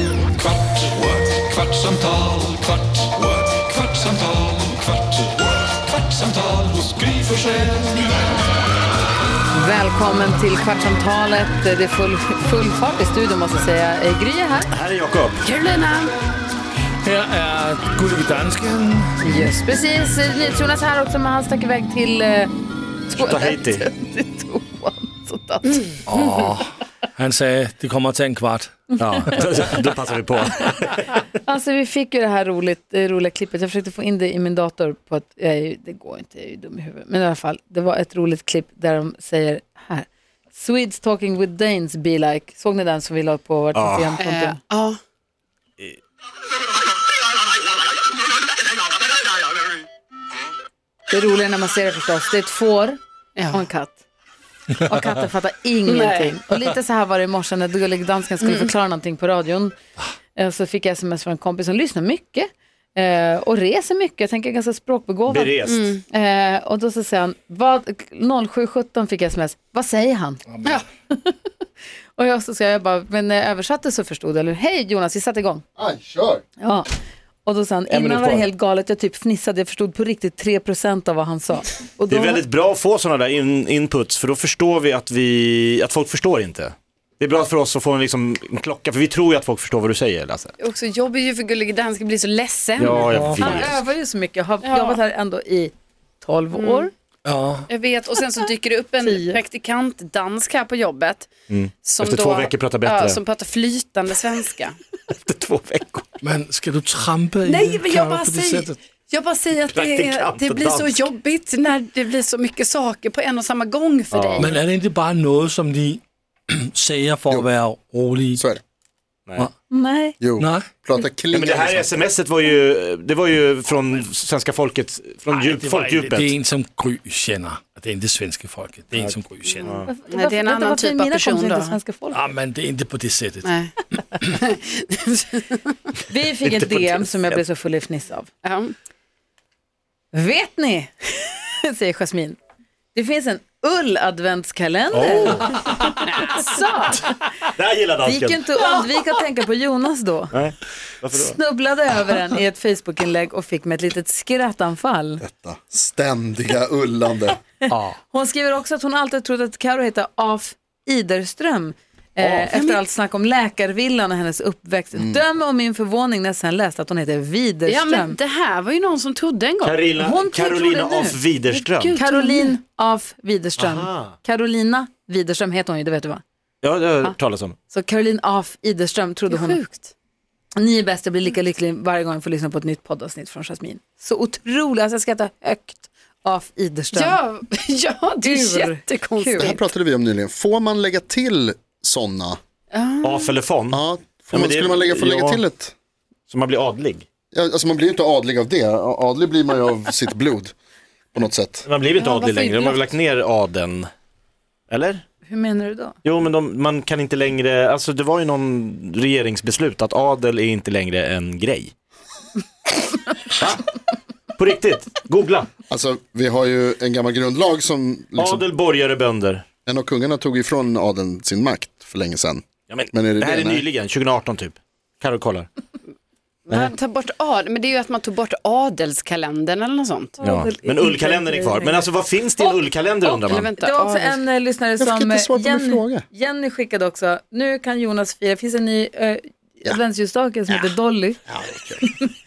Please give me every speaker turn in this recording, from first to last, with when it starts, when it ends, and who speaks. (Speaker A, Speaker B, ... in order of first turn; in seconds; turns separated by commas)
Speaker A: 0.9-4.3, Speaker B: 6.8-7.9, Speaker C: 9.5-14.7, Speaker D: 14.7-15.5, Speaker E: 15.4-16.1, Speaker B: 17.0-19.5, Speaker C: 19.2-22.5, Speaker C: 23.1-25.9, Speaker D: 23.1-23.9, Speaker E: 25.7-26.5, Speaker B: 26.1-29.6, Speaker D: 29.0-31.2, Speaker C: 31.4-44.6, Speaker D: 43.7-44.2, Speaker E: 44.2-45.0, Speaker C: 51.1-53.0, Speaker E: 53.4-53.7, Speaker C: 53.5-54.0, Speaker C: 54.8-59.7, Speaker E: 55.9-56.4, Speaker E: 58.4-58.7, Speaker C: 60.3-65.6, Speaker D: 65.3-65.9, Speaker E: 65.7-66.0, Speaker C: 66.1-70.4, Speaker C: 72.2-75.6, Speaker F: 75.8-76.4, Speaker C: 76.6-76.9, Speaker C: 77.4-82.4, Speaker D: 77.9-78.5, Speaker D: 82.1-90.5, Speaker E: 90.6-93.7, Speaker B: 92.8-93.5, Speaker D: 92.8-93.8, Speaker C: 93.4-96.9, Speaker E: 94.6-95.0, Speaker E: 96.5-96.9, Speaker B: 97.2-97.7, Speaker E: 97.7-104.8, Speaker C: 99.0-99.4, Speaker D: 101.5-103.2, Speaker D: 105.1-106.1, Speaker B: 106.2-108.8, Speaker E: 107.4-114.6, Speaker D: 109.7-111.1, Speaker D: 114.1-114.4, Speaker B: 114.3-118.4, Speaker F: 118.3-118.6, Speaker D: 119.3-119.5, Speaker C: 119.7-120.2, Speaker F: 120.2-122.1, Speaker B: 120.4-120.7, Speaker D: 121.3-126.3, Speaker B: 125.3-129.8, Speaker D: 128.9-129.9, Speaker C: 129.8-132.2, Speaker E: 130.1-131.8, Speaker B: 132.1-134.3, Speaker E: 133.4-133.7, Speaker E: 134.3-135.8, Speaker C: 136.1-138.3, Speaker D: 136.4-137.4, Speaker E: 138.4-138.7, Speaker C: 140.1-142.4, Speaker C: 142.9-147.2, Speaker D: 144.9-146.0, Speaker E: 146.1-146.6, Speaker D: 147.5-148.5, Speaker C: 148.0-150.4, Speaker D: 150.3-151.4, Speaker C: 151.1-155.2, Speaker F: 155.2-157.4, Speaker D: 157.7-158.0, Speaker C: 157.7-168.2, Speaker D: 162.2-162.5, Speaker E: 162.5-162.8, Speaker F: 164.9-165.2, Speaker E: 167.7-169.8, Speaker D: 169.6-172.0, Speaker C: 170.0-171.2, Speaker E: 171.4-172.6, Speaker C: 171.9-176.2, Speaker D: 173.6-174.2, Speaker D: 176.6-177.6, Speaker C: 177.7-179.6, Speaker E: 179.3-179.9, Speaker C: 180.6-187.2, Speaker E: 186.9-189.6, Speaker C: 188.2-189.6, Speaker F: 189.4-192.4, Speaker E: 192.7-193.4, Speaker D: 193.0-195.4, Speaker F: 193.7-195.7, Speaker D: 196.3-197.0, Speaker F: 197.3-200.5, Speaker F: 201.1-201.6, Speaker D: 201.6-203.9, Speaker E: 202.0-202.9, Speaker D: 204.7-205.0, Speaker C: 205.3-206.0, Speaker D: 206.0-211.7, Speaker D: 214.4-215.5, Speaker F: 215.7-218.4, Speaker D: 218.2-219.4, Speaker F: 219.7-223.6, Speaker D: 222.7-225.5, Speaker E: 226.5-230.2, Speaker C: 230.2-231.9, Speaker D: 230.2-233.5, Speaker E: 233.0-234.2, Speaker C: 233.6-241.2, Speaker F: 234.8-236.0, Speaker F: 240.5-240.7, Speaker F: 241.3-241.8, Speaker C: 241.8-242.1